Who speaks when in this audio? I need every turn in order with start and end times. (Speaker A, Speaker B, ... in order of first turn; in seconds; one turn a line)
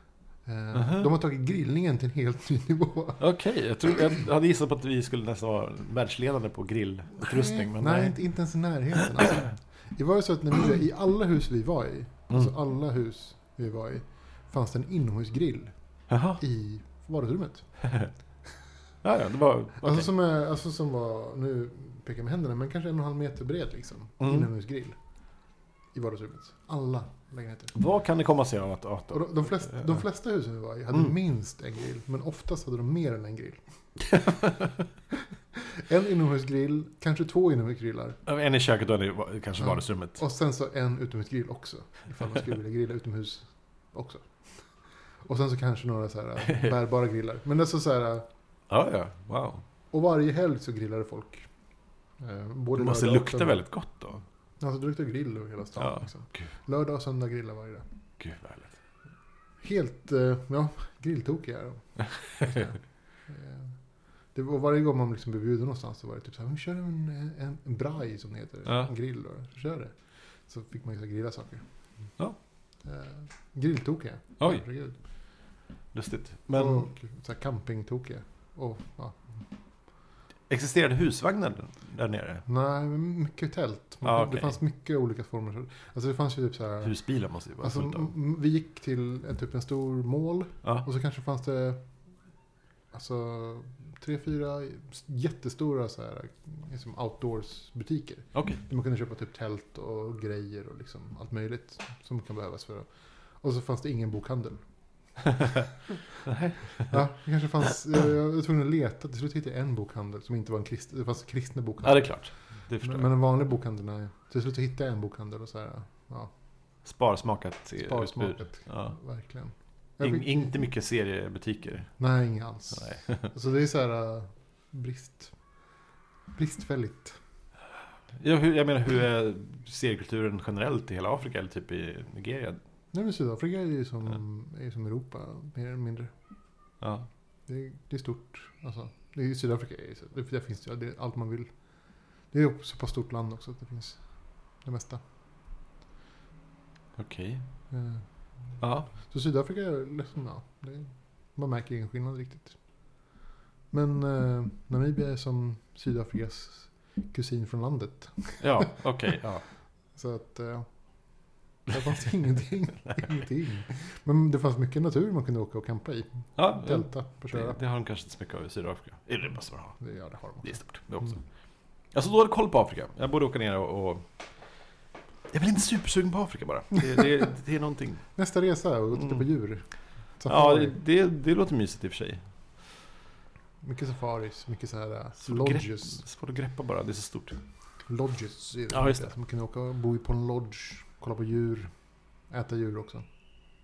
Speaker A: 0.5-3.2
Speaker B: 0.7-1.1
Speaker B: 3.2-8.2
Speaker A: 7.2-15.7
Speaker B: 16.1-16.4
Speaker A: 16.4-17.7
Speaker B: 17.8-18.1
Speaker B: 19.0-20.1
Speaker A: 19.8-25.0
Speaker B: 24.2-24.5
Speaker A: 25.9-27.8
Speaker B: 27.8-30.0
Speaker A: 29.1-33.6
Speaker B: 34.1-34.7
Speaker A: 35.5-38.2
Speaker B: 38.3-40.2
Speaker A: 39.6-44.6
Speaker A: 45.2-48.3
Speaker B: 48.7-49.6
Speaker A: 49.9-51.5
Speaker A: 52.2-53.6
Speaker B: 52.8-54.2
Speaker A: 54.6-57.9
Speaker B: 55.8-56.5
Speaker B: 58.2-58.8
Speaker A: 59.6-63.8
Speaker B: 62.0-62.7
Speaker A: 64.3-71.7
Speaker A: 72.8-75.0
Speaker B: 75.9-76.9
Speaker A: 76.5-79.4
Speaker B: 80.5-82.5
Speaker A: 82.5-87.0
Speaker B: 84.0-84.6
Speaker B: 86.8-88.1
Speaker A: 87.6-91.9
Speaker A: 92.9-104.6
Speaker B: 98.3-98.6
Speaker B: 106.2-107.0
Speaker A: 106.9-112.2
Speaker B: 111.8-113.1
Speaker A: 112.8-116.3
Speaker B: 116.8-119.0
Speaker A: 117.8-120.5
Speaker B: 120.0-121.9
Speaker A: 122.0-125.3
Speaker B: 122.7-123.3
Speaker A: 126.3-127.2
Speaker B: 128.2-132.6
Speaker A: 132.9-136.1
Speaker B: 136.8-137.1
Speaker A: 137.5-141.5
Speaker A: 142.3-144.0
Speaker A: 144.6-145.0
Speaker B: 147.0-147.4
Speaker A: 147.7-148.1
Speaker B: 148.6-148.9
Speaker A: 148.9-152.6
Speaker A: 153.7-158.7
Speaker B: 158.4-159.4
Speaker A: 159.9-160.7
Speaker A: 161.7-167.6
Speaker B: 166.4-169.9
Speaker A: 169.8-171.1
Speaker B: 170.4-171.2
Speaker B: 171.9-174.1
Speaker B: 175.3-178.1
Speaker A: 178.2-179.7
Speaker A: 180.2-180.8
Speaker B: 180.3-182.2
Speaker A: 183.6-186.0
Speaker B: 185.2-187.4
Speaker A: 187.9-191.7
Speaker B: 188.7-189.1
Speaker A: 192.3-193.1